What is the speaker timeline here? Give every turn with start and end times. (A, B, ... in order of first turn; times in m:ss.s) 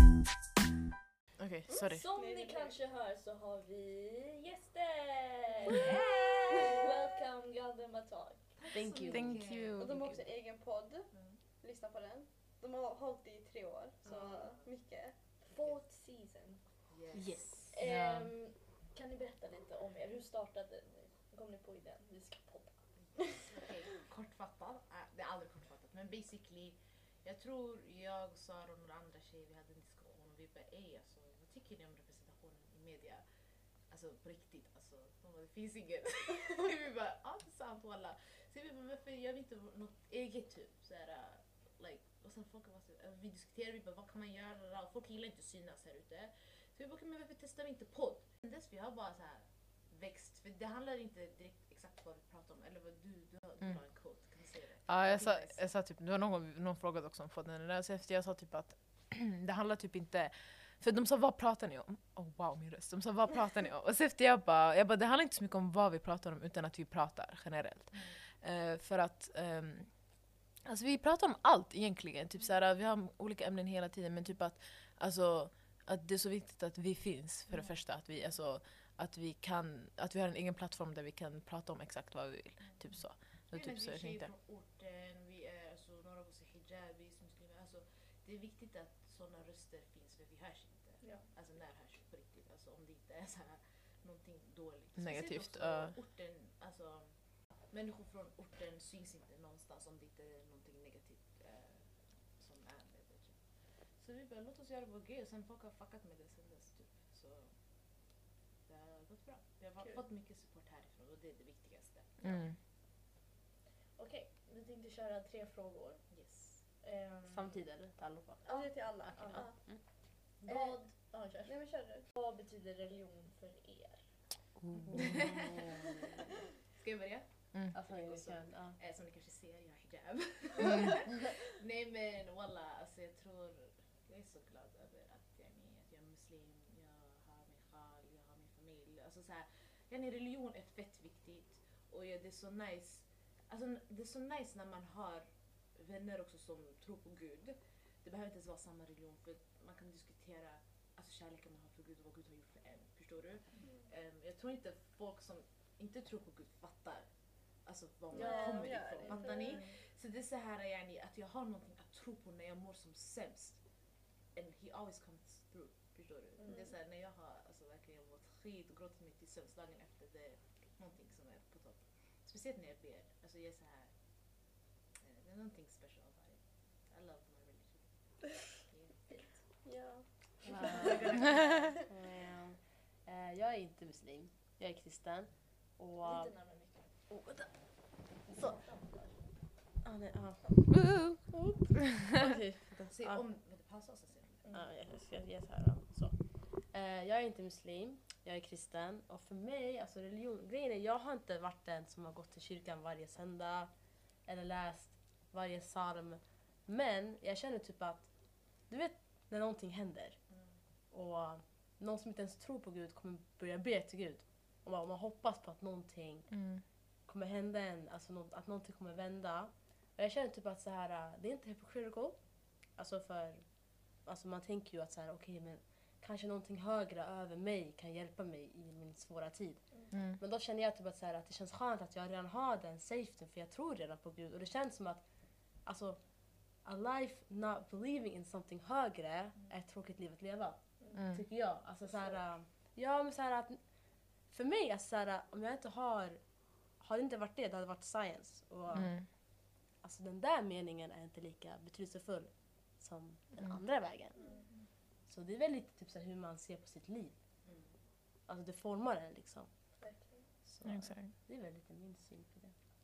0:01.4-0:02.0 A
0:01.7-0:08.5 B
0:02.0-0:02.8 C
0:05.7-0:06.4 D
0:08.6-0:09.8 D
0:08.7-0:09.4 E
0:09.1-0:10.2 A
0:09.8-0:15.4 C
0:11.1-0:11.4 D
0:14.0-0:14.7 D
0:14.1-0:14.4 B
0:15.4-0:16.8 B
0:15.5-0:15.8 D
0:16.9-0:17.5 D
0:17.1-0:17.8 E
0:17.7-0:22.8 B
0:17.8-0:18.3 A
0:23.4-0:33.2 D
0:33.9-0:55.6 D
0:54.9-1:24.3 A
1:07.9-1:08.2 D
1:17.5-1:17.8 D
1:22.6-1:47.5 D
1:31.0-1:31.3 B
1:35.0-1:36.0 A
1:48.6-1:52.5 D
1:52.2-1:52.6 A
1:54.0-1:57.6 B
1:56.1-1:56.6 D
1:57.3-1:59.8 E
1:58.4-1:59.7 C
1:58.4-2:04.2 B
2:00.4-2:02.1 C
2:04.6-2:05.2 A
2:04.7-2:06.3 E
2:04.9-2:05.6 D
2:06.7-2:37.1 D
2:07.7-2:08.8 E
2:10.7-2:11.0 A
2:37.6-2:43.6 D
2:38.1-2:39.6 C
2:38.1-2:39.8 B
2:44.3-2:53.9 D
2:46.4-2:46.7 B
2:46.4-2:46.7 C
2:55.0-2:59.4 D
2:59.6-3:01.4 C
3:00.4-3:01.8 D
3:00.5-3:01.2 E
3:01.8-3:08.6 E
3:06.0-3:07.1 B
3:08.3-3:09.4 B
3:09.8-3:13.2 E
3:10.9-3:11.2 A
3:12.9-3:14.5 D
3:14.5-3:30.2 E
3:30.9-4:17.2 E
3:36.3-3:36.6 A
3:49.9-3:50.2 A
4:00.8-4:01.1 B
4:00.9-4:01.2 A
4:08.7-4:09.1 A
4:14.2-4:14.7 B
4:17.4-4:17.7 D
4:18.3-4:22.6 E
4:19.8-4:20.3 B
4:20.6-4:21.1 A